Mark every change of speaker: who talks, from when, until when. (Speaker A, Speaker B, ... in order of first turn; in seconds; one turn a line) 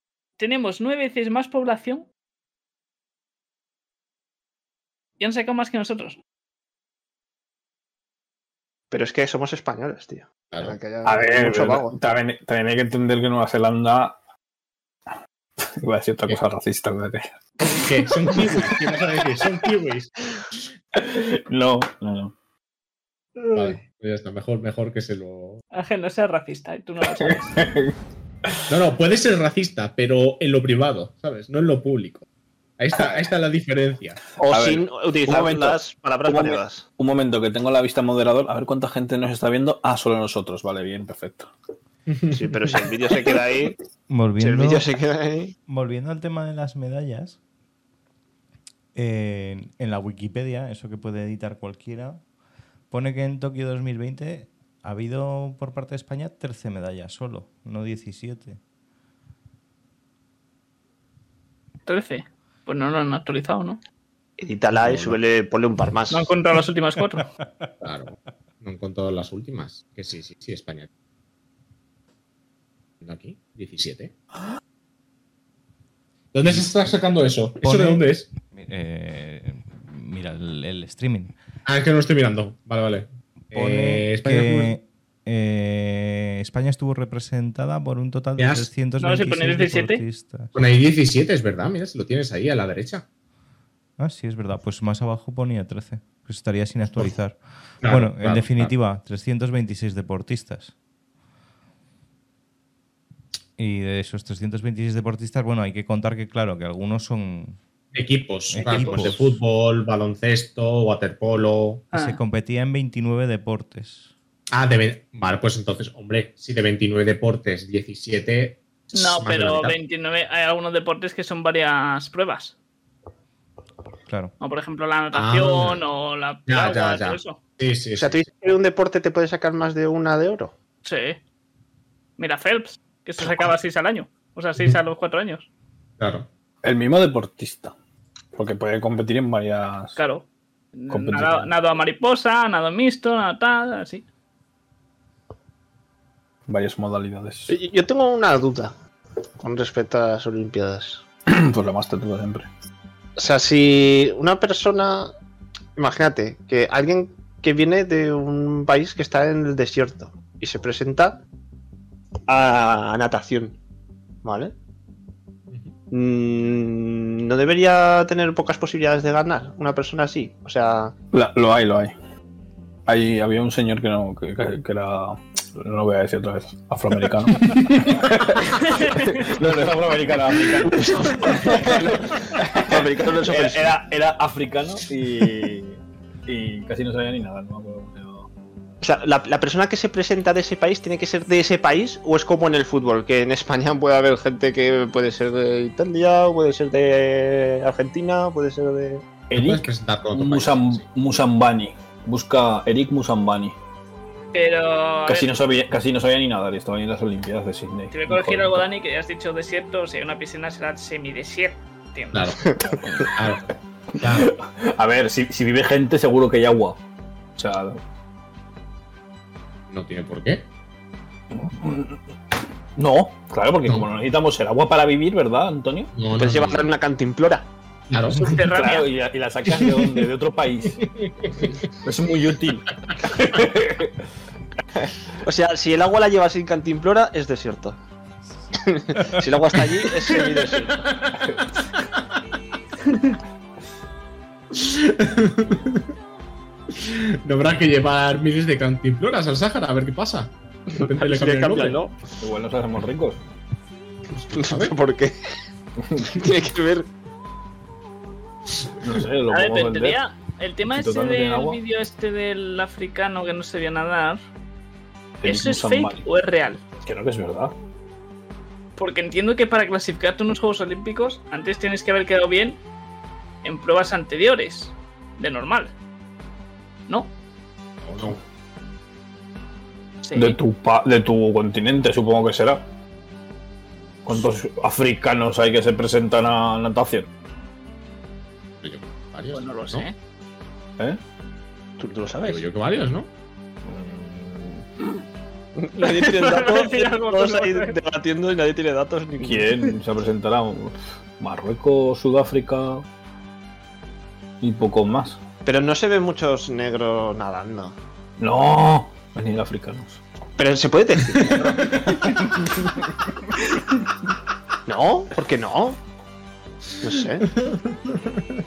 Speaker A: 0.4-2.1
Speaker A: 5.2-6.2
Speaker B: 8.9-12.0
Speaker C: 10.5-10.8
Speaker D: 11.1-14.2
Speaker D: 15.6-17.3
Speaker C: 17.6-20.1
Speaker D: 18.0-18.6
Speaker D: 20.9-22.3
Speaker C: 23.5-25.6
Speaker A: 25.7-27.6
Speaker D: 27.2-27.9
Speaker C: 28.7-32.2
Speaker C: 32.8-34.2
Speaker B: 34.4-36.9
Speaker D: 34.5-41.5
Speaker C: 42.1-42.5
Speaker B: 42.3-43.8
Speaker E: 44.1-44.9
Speaker B: 44.4-45.5
Speaker E: 45.7-47.4
Speaker E: 48.9-52.2
Speaker E: 52.9-58.6
Speaker A: 61.9-63.8
Speaker B: 64.4-66.3
Speaker C: 64.8-65.2
Speaker A: 66.1-67.3
Speaker C: 67.8-70.9
Speaker C: 73.0-74.1
Speaker C: 76.3-78.3
Speaker E: 77.6-81.3
Speaker C: 81.7-84.8
Speaker E: 83.5-90.5
Speaker C: 88.4-88.7
Speaker A: 89.0-90.0
Speaker C: 90.5-93.1
Speaker E: 94.0-100.7
Speaker C: 97.8-98.7
Speaker E: 103.6-107.6
Speaker C: 107.9-111.8
Speaker E: 108.5-109.4
Speaker A: 108.5-109.0
Speaker A: 111.9-112.2
Speaker E: 111.9-114.1
Speaker C: 114.5-119.8
Speaker A: 118.9-122.5
Speaker E: 124.1-124.3
Speaker A: 124.4-127.4
Speaker C: 125.1-125.8
Speaker C: 126.5-128.3
Speaker B: 128.0-130.6
Speaker A: 130.8-131.2
Speaker A: 132.2-135.5
Speaker C: 136.0-136.3
Speaker D: 136.6-137.7
Speaker D: 138.3-140.0
Speaker A: 139.9-140.2
Speaker A: 140.7-144.1
Speaker D: 140.9-141.5
Speaker D: 146.5-147.5
Speaker B: 147.5-148.7
Speaker B: 149.4-151.0
Speaker D: 151.3-152.5
Speaker B: 153.2-155.1
Speaker B: 155.8-161.2
Speaker B: 162.3-163.6
Speaker B: 164.2-164.5
Speaker B: 165.9-170.9
Speaker D: 171.1-171.9
Speaker D: 172.9-188.3
Speaker A: 178.7-179.3
Speaker B: 181.1-183.8
Speaker B: 188.8-199.1
Speaker D: 199.3-203.6
Speaker C: 199.3-200.8
Speaker A: 204.3-205.3
Speaker D: 205.1-208.6
Speaker A: 207.9-212.2
Speaker C: 212.1-213.4
Speaker B: 212.4-212.8
Speaker C: 214.0-214.3
Speaker D: 214.1-216.8
Speaker D: 217.4-217.8
Speaker C: 219.7-220.4
Speaker D: 221.3-222.0
Speaker D: 222.8-225.9
Speaker C: 225.9-226.7
Speaker B: 226.1-227.5
Speaker C: 227.9-228.4
Speaker A: 228.2-228.9
Speaker D: 228.3-230.8
Speaker C: 229.6-230.1
Speaker C: 230.8-231.7
Speaker D: 231.8-234.0
Speaker B: 235.2-237.8
Speaker B: 238.6-240.9
Speaker C: 240.1-241.4
Speaker A: 242.9-243.2
Speaker C: 244.5-245.9
Speaker C: 246.7-251.8
Speaker B: 250.7-251.9
Speaker D: 252.2-253.2
Speaker C: 254.1-254.8
Speaker B: 254.3-255.1
Speaker D: 255.8-256.1
Speaker B: 256.0-256.9
Speaker D: 258.8-260.0
Speaker A: 259.3-264.2
Speaker D: 260.6-261.6
Speaker D: 265.2-266.1
Speaker A: 265.2-266.6
Speaker D: 266.8-267.5
Speaker A: 268.8-272.6
Speaker A: 273.4-275.7
Speaker C: 277.8-278.2
Speaker A: 280.0-280.4
Speaker D: 280.1-282.6
Speaker D: 284.1-287.1
Speaker C: 288.6-289.9
Speaker A: 289.3-289.9
Speaker B: 291.8-292.4
Speaker C: 292.2-293.1
Speaker D: 293.6-294.6
Speaker B: 295.6-299.6
Speaker A: 295.8-297.8
Speaker D: 299.2-302.9
Speaker D: 304.4-305.2
Speaker B: 305.4-307.8
Speaker D: 308.2-310.0
Speaker B: 310.4-311.8
Speaker C: 311.1-312.1
Speaker B: 314.6-315.8
Speaker B: 316.8-317.3
Speaker C: 317.3-318.4